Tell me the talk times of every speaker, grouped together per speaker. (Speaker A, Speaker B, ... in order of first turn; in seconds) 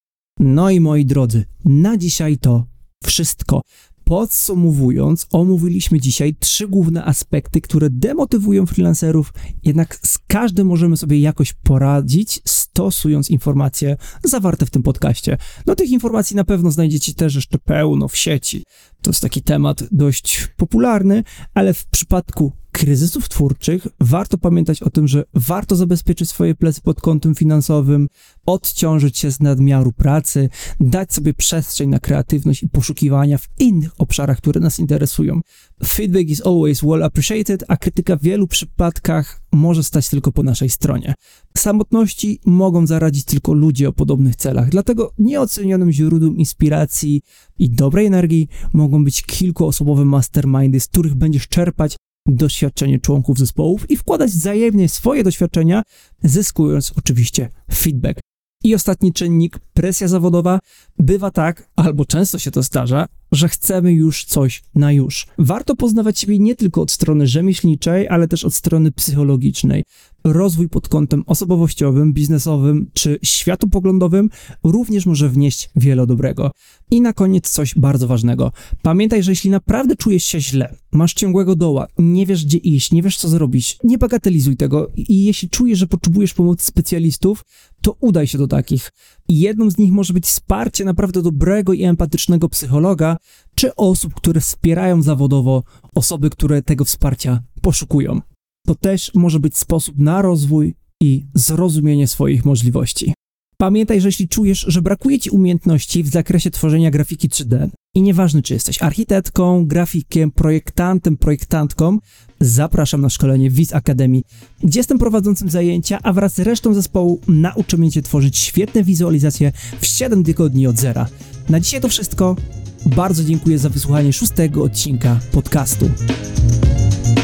Speaker A: 0.4-126.0